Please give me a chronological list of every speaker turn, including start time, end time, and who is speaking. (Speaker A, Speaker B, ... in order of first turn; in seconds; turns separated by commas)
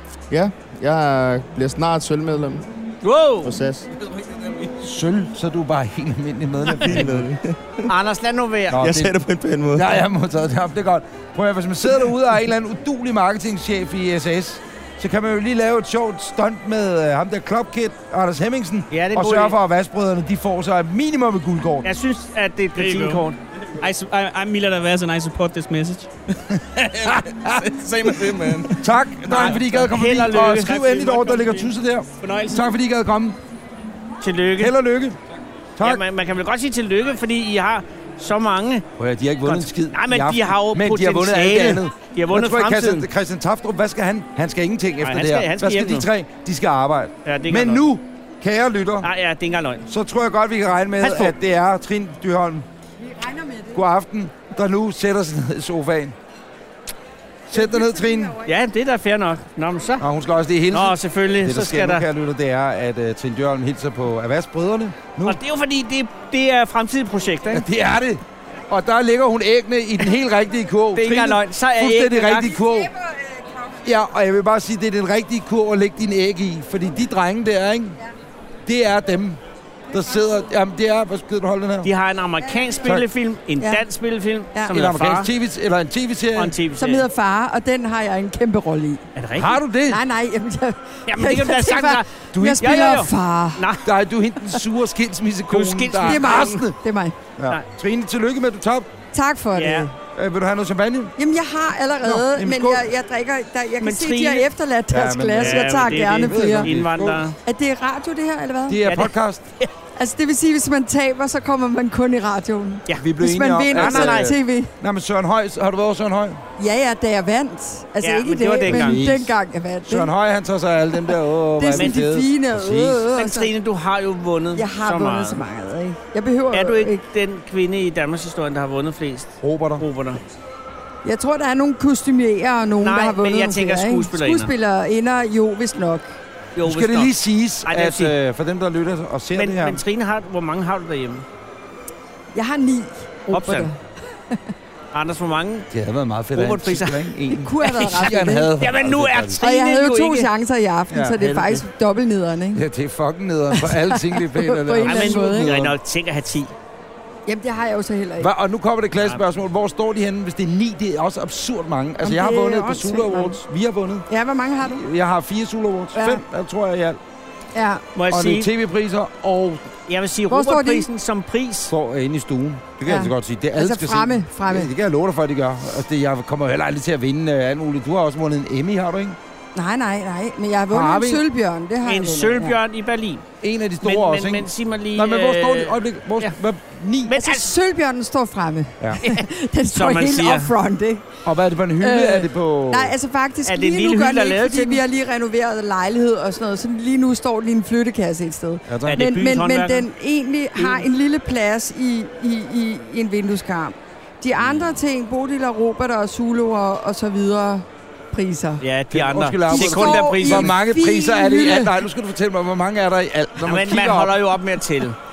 Speaker A: 0.3-2.6, Speaker B: 3.0-3.6, Speaker A: 3.4-3.9, Speaker C: 4.0-4.7, Speaker D: 4.8-7.2, Speaker A: 6.8-7.9, Speaker B: 7.9-8.8, Speaker D: 8.7-9.1, Speaker A: 8.8-10.0, Speaker D: 9.7-21.9, Speaker B: 18.9-19.6, Speaker B: 21.8-23.4, Speaker E: 22.8-23.2, Speaker E: 23.8-26.1, Speaker D: 26.5-27.6, Speaker C: 26.9-28.8, Speaker D: 28.7-33.4, Speaker B: 29.3-31.1, Speaker E: 30.6-32.6, Speaker B: 34.2-34.7, Speaker D: 34.6-35.2, Speaker D: 35.8-36.0, Speaker B: 35.8-38.9, Speaker D: 39.0-49.1, Speaker B: 39.4-43.1, Speaker B: 45.0-46.1, Speaker B: 47.2-47.8, Speaker B: 49.0-49.8, Speaker D: 49.9-52.6, Speaker B: 51.0-51.3, Speaker F: 53.0-53.8, Speaker D: 53.7-56.1, Speaker D: 57.5-58.4, Speaker F: 57.5-58.5, Speaker B: 58.4-60.0, Speaker D: 60.0-65.4, Speaker B: 60.7-62.0, Speaker B: 65.2-67.6, Speaker D: 67.5-72.9, Speaker B: 70.9-72.6, Speaker F: 72.6-73.4, Speaker D: 73.8-78.0, Speaker D: 78.7-79.4, Speaker D: 79.9-81.9, Speaker B: 81.8-85.3, Speaker F: 82.4-82.8, Speaker D: 84.7-86.5, Speaker B: 86.3-87.0, Speaker F: 86.8-89.0, Speaker B: 89.2-89.6, Speaker D: 89.3-90.0, Speaker F: 89.9-93.7, Speaker B: 91.1-92.0, Speaker D: 92.3-92.7, Speaker B: 92.6-93.8, Speaker D: 93.8-96.8, Speaker B: 95.5-96.6, Speaker F: 96.0-97.1, Speaker D: 97.4-98.9, Speaker F: 99.1-99.9, Speaker B: 99.5-99.9, Speaker D: 100.1-101.1, Speaker F: 101.2-106.7, Speaker D: 102.0-102.8, Speaker B: 103.8-104.5, Speaker D: 104.9-107.2, Speaker B: 105.4-107.4, Speaker F: 107.4-108.8, Speaker D: 108.7-109.4, Speaker B: 108.8-109.7, Speaker F: 110.0-114.7, Speaker D: 113.0-116.4, Speaker B: 113.7-114.3, Speaker F: 116.6-120.1, Speaker B: 118.0-119.0, Speaker D: 118.6-123.1, Speaker F: 121.6-123.5, Speaker B: 121.7-122.0, Speaker B: 123.1-125.4, Speaker F: 124.5-127.0, Speaker B: 126.5-130.2, Speaker D: 129.4-129.8, Speaker F: 131.0-136.1, Speaker B: 132.8-134.5, Speaker B: 136.6-137.1, Speaker D: 136.6-139.8, Speaker B: 137.7-138.1, Speaker B: 139.3-141.2, Speaker F: 142.3-144.4, Speaker B: 143.3-143.7, Speaker B: 144.9-145.7, Speaker D: 145.7-149.4, Speaker B: 146.3-147.0, Speaker F: 147.3-148.5, Speaker B: 147.6-150.3, Speaker F: 149.4-152.6, Speaker D: 150.9-151.2, Speaker B: 151.2-151.6, Speaker D: 152.5-155.7, Speaker F: 153.5-155.5, Speaker B: 154.8-156.5, Speaker F: 157.3-158.3, Speaker D: 158.2-164.1, Speaker F: 162.0-163.4, Speaker F: 164.1-164.8, Speaker D: 164.6-167.0, Speaker F: 165.9-166.2, Speaker F: 167.5-167.8, Speaker B: 167.9-168.5, Speaker D: 168.1-169.7, Speaker B: 169.9-171.7, Speaker F: 170.3-170.9, Speaker D: 171.7-179.2, Speaker F: 172.8-174.7, Speaker F: 179.5-182.6, Speaker D: 180.7-181.2, Speaker B: 181.8-183.2, Speaker D: 183.4-187.1, Speaker B: 183.8-186.3, Speaker B: 187.1-187.5, Speaker F: 187.2-191.0, Speaker B: 189.0-190.5, Speaker D: 191.2-192.9, Speaker F: 191.8-208.6, Speaker B: 193.4-194.8, Speaker D: 198.7-199.0, Speaker B: 198.9-199.9, Speaker B: 200.6-200.8, Speaker B: 208.6-210.5, Speaker D: 208.9-214.1, Speaker F: 209.5-211.8, Speaker B: 213.4-214.9